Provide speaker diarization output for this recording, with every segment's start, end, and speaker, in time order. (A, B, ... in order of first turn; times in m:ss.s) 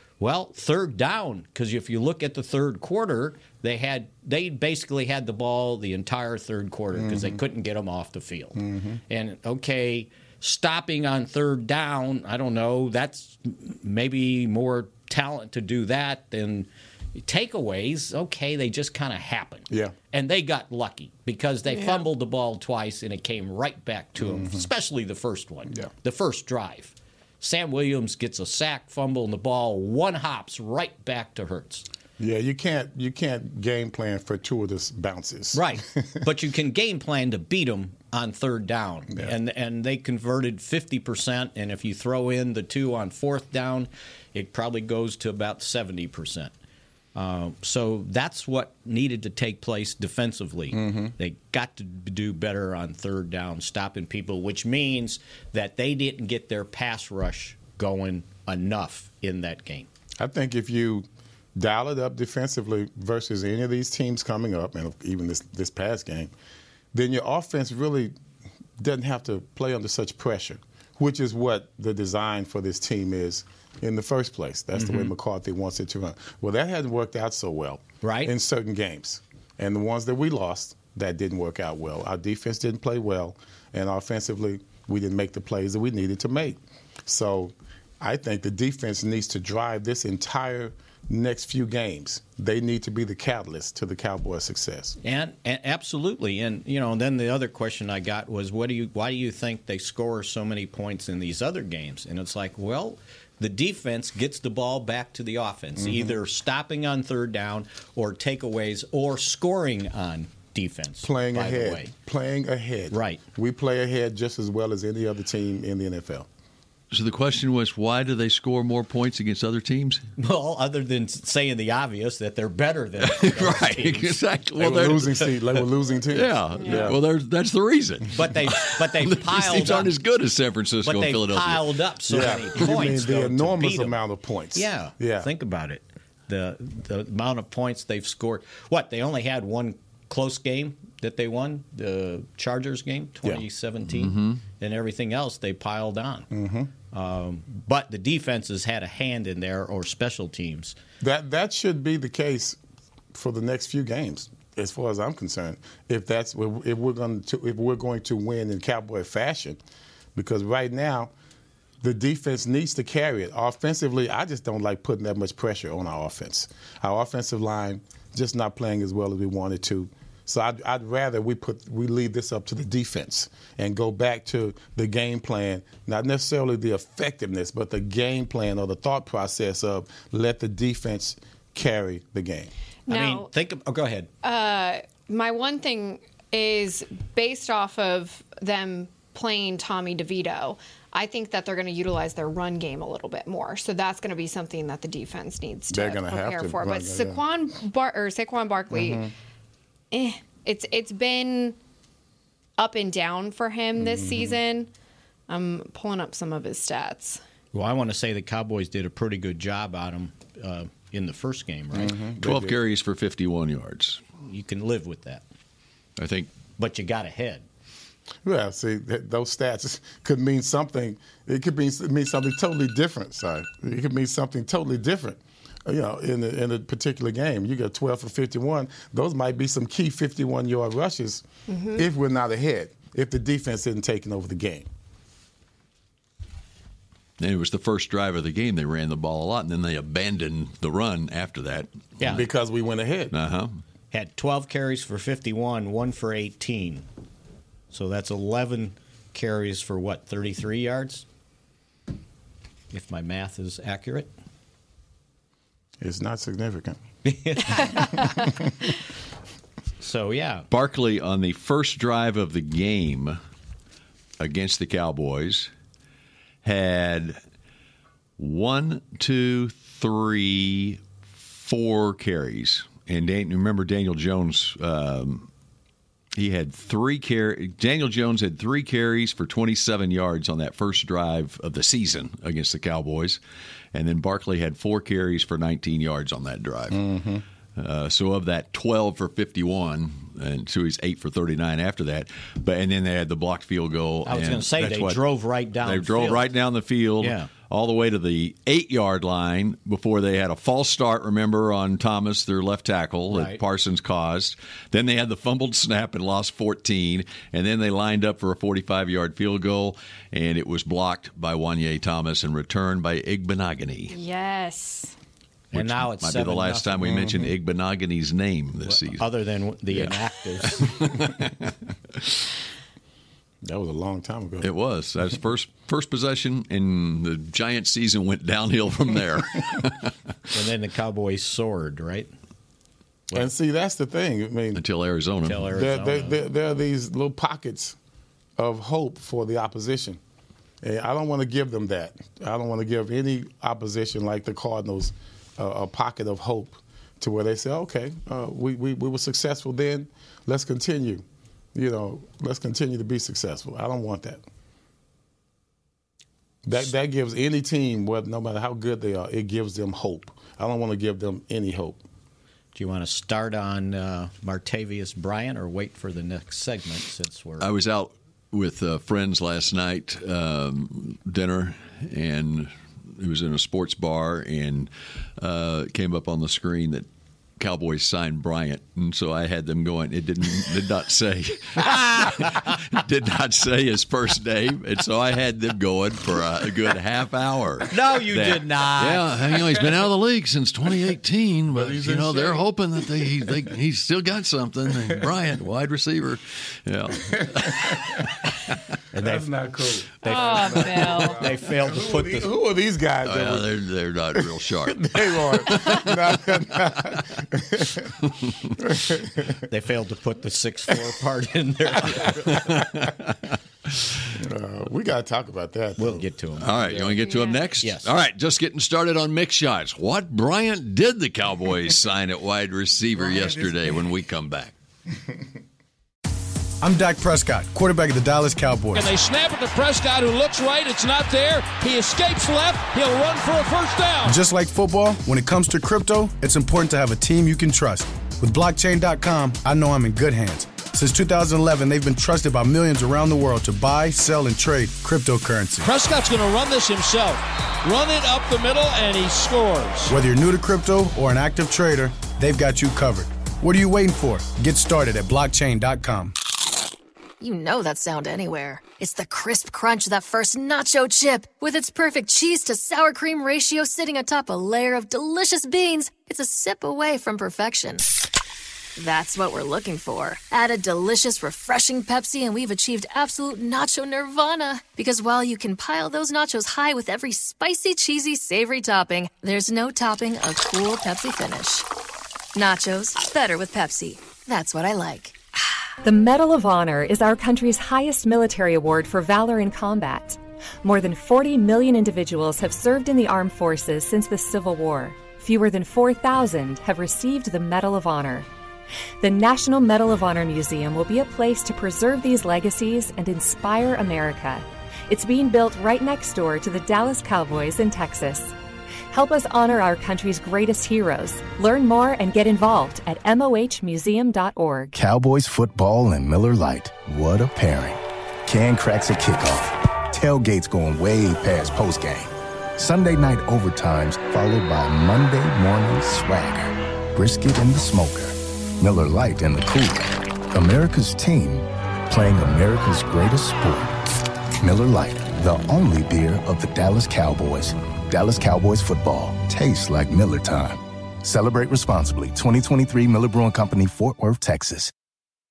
0:00.2-0:31.9 A
0:07.0-0:07.4 B
0:08.6-0:09.0 B
0:21.7-0:22.0 C
0:24.2-0:24.6 B
0:32.2-0:36.2 B
0:35.5-0:46.5 A
0:47.1-0:59.9 A
0:50.7-0:51.1 B
1:00.2-1:06.3 B
1:06.9-1:08.1 B
1:08.8-1:35.0 B
1:14.7-1:15.1 A
1:18.0-1:18.3 A
1:35.0-1:51.9 A
1:45.8-1:46.2 B
1:51.0-1:56.3 B
1:52.9-1:53.2 A
1:56.9-2:00.0 D
2:00.2-2:04.1 A
2:03.0-2:11.8 D
2:04.6-2:07.0 B
2:06.6-2:06.9 C
2:08.1-2:09.9 A
2:10.8-2:14.0 A
2:12.1-2:15.3 B
2:14.5-2:26.3 A
2:23.9-2:24.4 D
2:26.3-2:26.7 B
2:26.9-2:30.7 A
2:31.0-2:32.6 B
2:33.1-2:39.6 B
2:40.2-2:41.1 B
2:41.8-3:02.5 B
3:02.9-3:03.3 C
3:02.9-3:04.1 A
3:04.2-3:19.1 C
3:15.7-3:17.2 B
3:18.7-3:19.1 B
3:19.9-3:21.6 C
3:22.6-3:24.7 C
3:23.8-3:24.4 B
3:25.3-3:27.2 C
3:27.5-3:32.0 A
3:31.7-3:32.6 B
3:32.2-3:34.0 D
3:34.2-3:35.2 A
3:36.0-3:36.3 D
3:36.6-3:37.4 A
3:38.2-3:54.7 B
3:51.5-3:51.8 C
3:57.2-4:01.7 D
4:02.0-4:02.2 A
4:02.0-4:03.1 B
4:03.1-4:03.6 D
4:03.9-4:06.8 A
4:07.7-4:11.0 A
4:12.7-4:14.1 A
4:15.8-4:16.8 B
4:17.0-4:17.9 A
4:19.8-4:20.5 A
4:20.5-4:23.2 D
4:24.2-4:25.5 D
4:26.4-4:27.2 D
4:28.2-4:35.3 D
4:36.1-4:43.2 D
4:43.7-4:46.8 D
4:46.7-4:47.2 B
4:47.6-4:55.0 D
4:54.0-4:56.3 A
4:55.6-5:13.9 D
4:57.0-4:57.3 A
5:03.1-5:03.4 A
5:13.9-5:14.9 C
5:15.5-5:17.0 A
5:15.5-5:19.0 D
5:16.8-5:17.3 B
5:18.6-5:20.7 A
5:19.7-5:22.1 D
5:23.4-5:24.5 B
5:24.4-5:29.9 D
5:30.3-5:32.1 A
5:33.1-5:34.6 B
5:34.5-5:35.5 D
5:35.2-5:36.2 A
5:35.5-5:37.8 B
5:38.4-5:40.0 B
5:40.6-5:51.0 B
5:51.5-5:54.2 B
5:56.4-6:01.8 B
6:02.5-6:07.5 A
6:07.4-6:16.9 D
6:17.4-6:38.1 D
6:27.7-6:29.2 A
6:31.5-6:33.3 B
6:37.1-6:38.1 B
6:38.9-6:39.3 A
6:38.9-6:43.5 B
6:40.0-6:42.3 A
6:40.0-6:41.3 C
6:43.0-6:47.0 D
6:44.1-6:48.0 B
6:48.0-6:48.5 D
6:48.6-6:49.4 B
6:49.5-6:52.4 A
6:51.9-6:52.9 B
6:52.1-6:53.8 D
6:54.1-6:56.0 B
6:55.8-6:56.5 A
6:56.4-7:04.5 D
6:56.6-6:57.0 B
6:57.0-6:57.4 C
6:57.6-6:57.9 A
7:06.6-7:08.9 E
7:08.7-7:14.2 F
7:14.0-7:25.7 E
7:25.6-7:29.9 F
7:29.9-7:36.1 E
7:37.2-7:47.8 G
7:48.8-8:01.6 G
8:02.3-8:05.2 G
8:05.8-8:18.3 H
8:19.0-8:28.3 H
8:28.9-8:34.7 H
8:34.7-8:53.8 I
8:54.4-9:04.7 I